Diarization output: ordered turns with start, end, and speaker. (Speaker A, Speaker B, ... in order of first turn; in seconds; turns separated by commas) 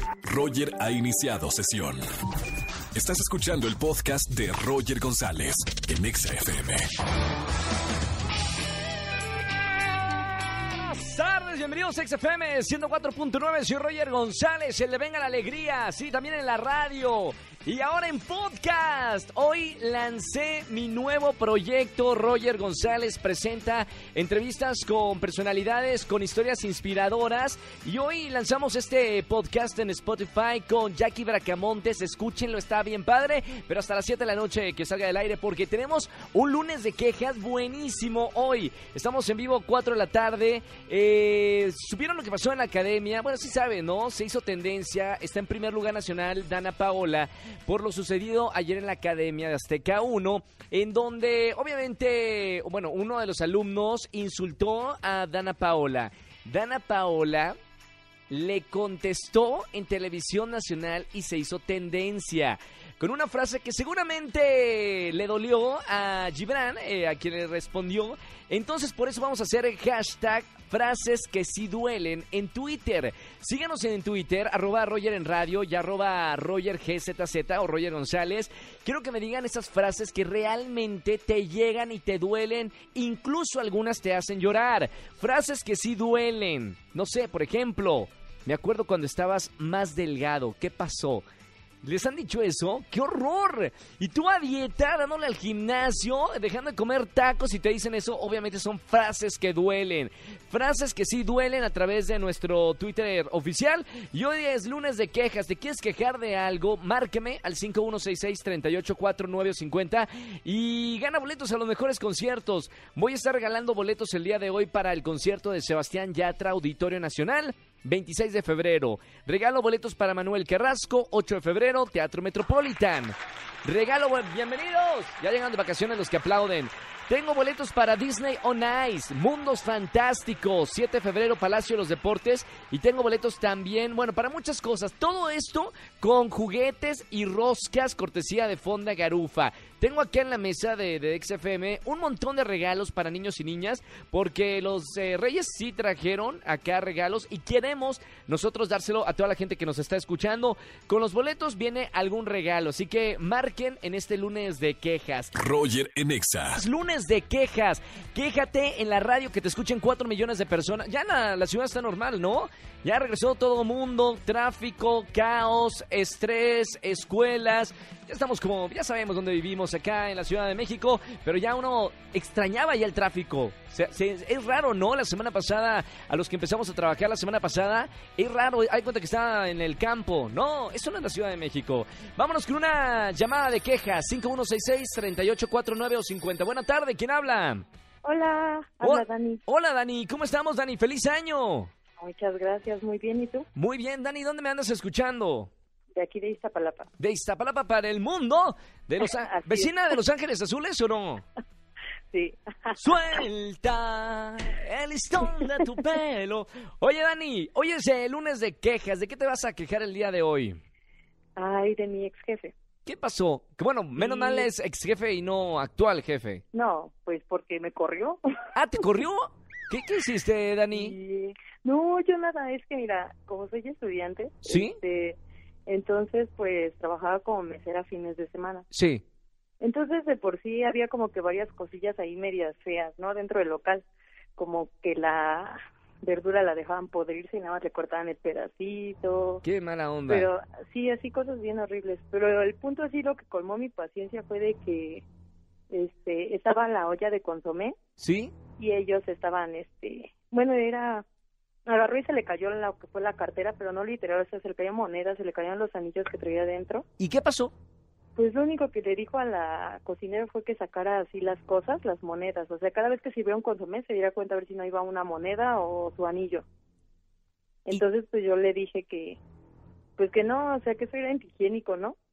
Speaker A: 0.3-2.0, Speaker A: 2.9-6.9, Speaker B: 10.6-57.6, Speaker B: 58.3-91.2, Speaker B: 91.8-155.3, Speaker A: 155.4-156.6, Speaker B: 156.6-187.7, Speaker C: 188.0-189.4, Speaker B: 188.8-191.7, Speaker C: 192.0-193.5, Speaker B: 193.6-195.5, Speaker C: 195.9-196.9, Speaker B: 197.0-201.2, Speaker C: 199.2-199.7, Speaker C: 202.1-202.8, Speaker B: 202.8-210.6, Speaker C: 211.4-212.5, Speaker B: 212.8-216.4, Speaker C: 214.0-214.5, Speaker C: 216.5-218.2, Speaker B: 218.6-221.0, Speaker C: 220.7-228.7, Speaker B: 224.4-224.8, Speaker B: 228.7-229.0, Speaker C: 229.6-233.8, Speaker C: 234.4-239.4, Speaker B: 239.4-240.3, Speaker C: 240.1-245.0, Speaker C: 245.7-247.8, Speaker B: 248.0-248.3, Speaker C: 248.6-251.1, Speaker C: 251.7-256.9, Speaker B: 257.0-257.5, Speaker C: 258.2-266.4, Speaker C: 267.7-269.2, Speaker C: 270.0-272.0